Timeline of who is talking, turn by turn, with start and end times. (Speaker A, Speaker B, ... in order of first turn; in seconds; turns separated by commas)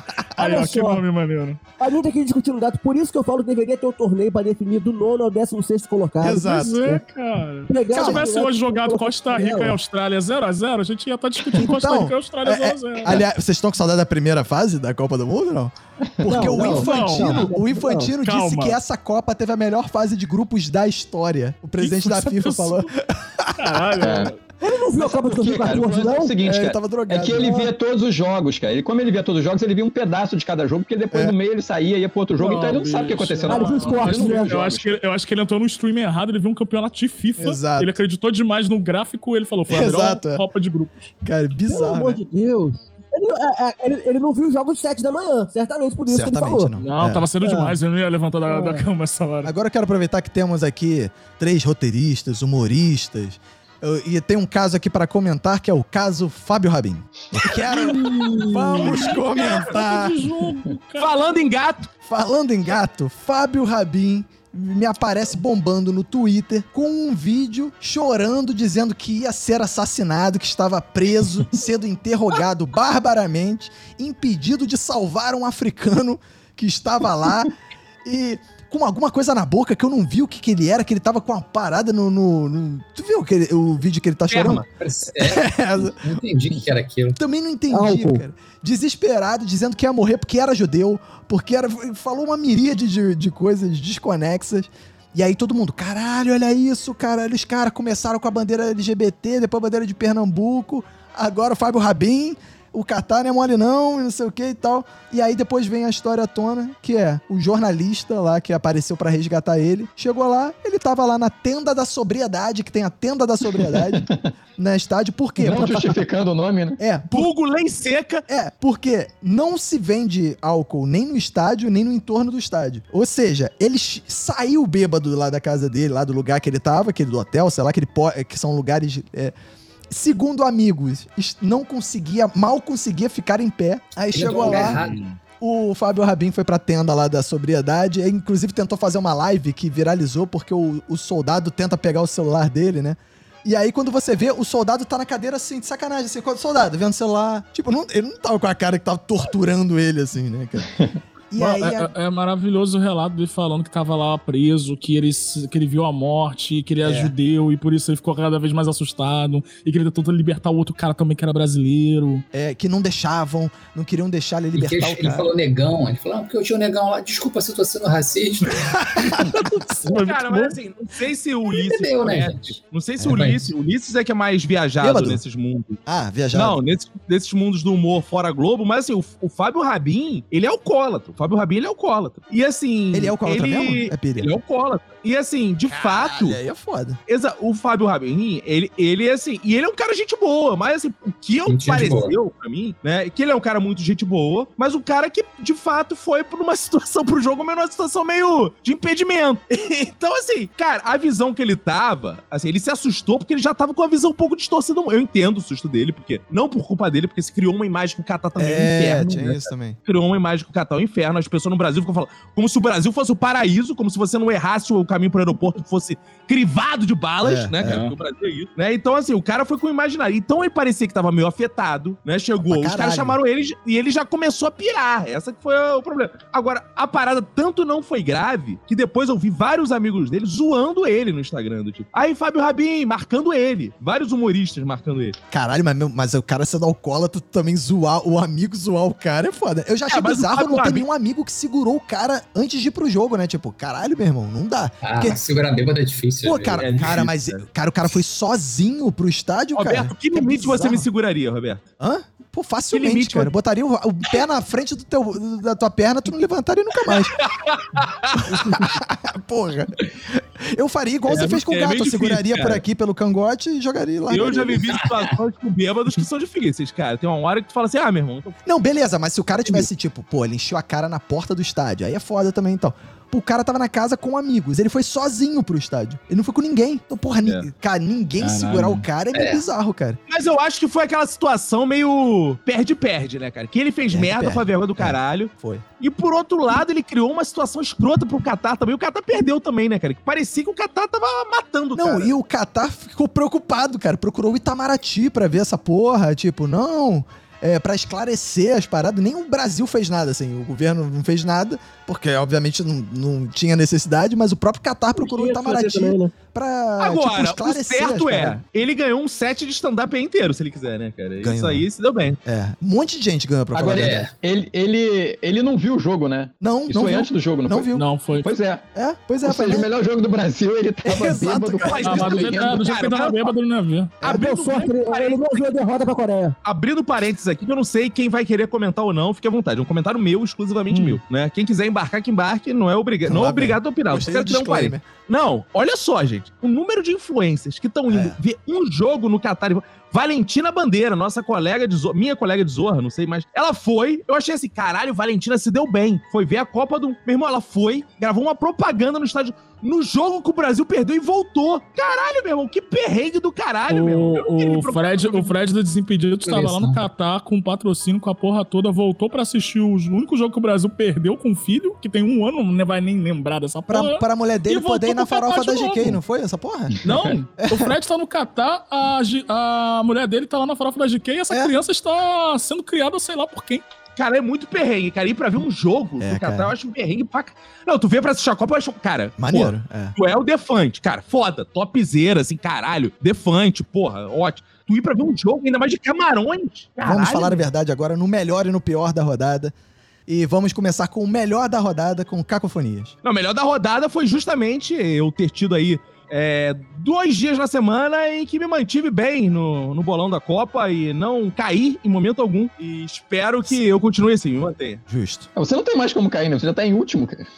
Speaker A: 0.3-1.6, Speaker B: 0.4-1.0, Speaker B: 1.8-7.0, Speaker C: 6.2-7.0, Speaker A: 6.3-13.2, Speaker B: 7.7-9.8, Speaker C: 7.9-8.3, Speaker C: 11.5-23.8, Speaker D: 16.2-16.7, Speaker B: 16.3-18.1, Speaker A: 16.5-17.6, Speaker A: 18.2-18.8, Speaker A: 21.8-22.9, Speaker A: 23.6-24.4, Speaker D: 24.0-24.3, Speaker B: 24.6-26.3, Speaker D: 25.0-35.0, Speaker C: 26.4-27.6, Speaker B: 27.4-27.7, Speaker A: 32.4-41.0, Speaker B: 33.5-34.5, Speaker C: 37.4-37.9, Speaker C: 39.7-40.4, Speaker C: 41.2-42.2, Speaker B: 41.7-46.7, Speaker C: 46.1-47.3, Speaker A: 46.8-49.5, Speaker B: 48.5-48.8, Speaker C: 49.4-60.2, Speaker A: 57.7-61.1, Speaker E: 61.0-61.9, Speaker C: 62.1-77.5, Speaker C: 78.0-84.6, Speaker E: 84.3-84.7, Speaker F: 84.8-87.2, Speaker C: 85.2-86.0, Speaker C: 87.2-116.0, Speaker B: 87.7-88.2, Speaker D: 113.6-114.3, Speaker D: 115.4-116.8, Speaker C: 116.8-117.3, Speaker E: 117.1-118.2, Speaker C: 118.3-129.3, Speaker C: 129.9-134.8, Speaker F: 134.1-135.0, Speaker A: 134.3-135.2, Speaker C: 135.4-150.7, Speaker C: 151.3-151.9, Speaker A: 151.4-162.2, Speaker C: 156.8-157.1, Speaker C: 162.3-165.3, Speaker F: 164.5-168.8, Speaker C: 168.7-169.4, Speaker A: 169.2-170.6, Speaker E: 169.9-175.8, Speaker F: 171.5-172.5, Speaker C: 173.0-173.3, Speaker F: 173.1-173.5, Speaker C: 174.8-175.2, Speaker C: 175.8-176.6, Speaker E: 176.3-186.4, Speaker C: 182.9-184.3, Speaker C: 185.7-187.0, Speaker E: 187.1-235.2, Speaker F: 191.5-192.1, Speaker C: 208.4-209.8, Speaker C: 217.2-217.8, Speaker A: 217.6-217.9, Speaker C: 222.4-223.2, Speaker C: 235.3-245.2, Speaker E: 239.9-240.8, Speaker F: 244.8-246.9, Speaker C: 246.2-250.9, Speaker E: 246.6-247.4, Speaker E: 249.6-251.6, Speaker C: 251.8-257.1, Speaker E: 252.7-253.3, Speaker E: 256.9-258.7, Speaker C: 258.3-264.7, Speaker E: 261.1-262.6, Speaker E: 264.1-268.4, Speaker F: 264.7-265.0, Speaker C: 268.4-280.0, Speaker A: 278.2-278.8, Speaker F: 279.1-279.4, Speaker E: 280.1-292.1, Speaker C: 283.9-285.6, Speaker C: 291.7-308.4, Speaker B: 304.9-306.1, Speaker E: 306.8-312.2, Speaker C: 311.2-311.6, Speaker C: 312.2-314.1, Speaker D: 313.5-318.6, Speaker F: 313.7-314.1, Speaker C: 316.4-317.8, Speaker A: 317.7-318.3, Speaker C: 318.7-319.7, Speaker D: 319.2-322.6, Speaker C: 320.8-322.0, Speaker E: 321.6-323.3, Speaker A: 321.8-324.0, Speaker E: 324.0-325.5, Speaker B: 324.0-326.4, Speaker E: 326.4-355.3, Speaker A: 330.7-331.0, Speaker C: 333.0-334.9, Speaker C: 337.9-338.2, Speaker A: 353.7-366.0, Speaker F: 356.2-356.8, Speaker C: 363.7-366.8, Speaker A: 366.8-373.6, Speaker C: 367.4-367.7, Speaker C: 371.3-371.6, Speaker E: 373.9-387.5, Speaker C: 376.0-376.5, Speaker C: 379.2-379.9, Speaker C: 386.8-389.5, Speaker C: 390.1-392.9, Speaker E: 393.0-404.8, Speaker C: 404.9-405.3, Speaker D: 405.4-407.2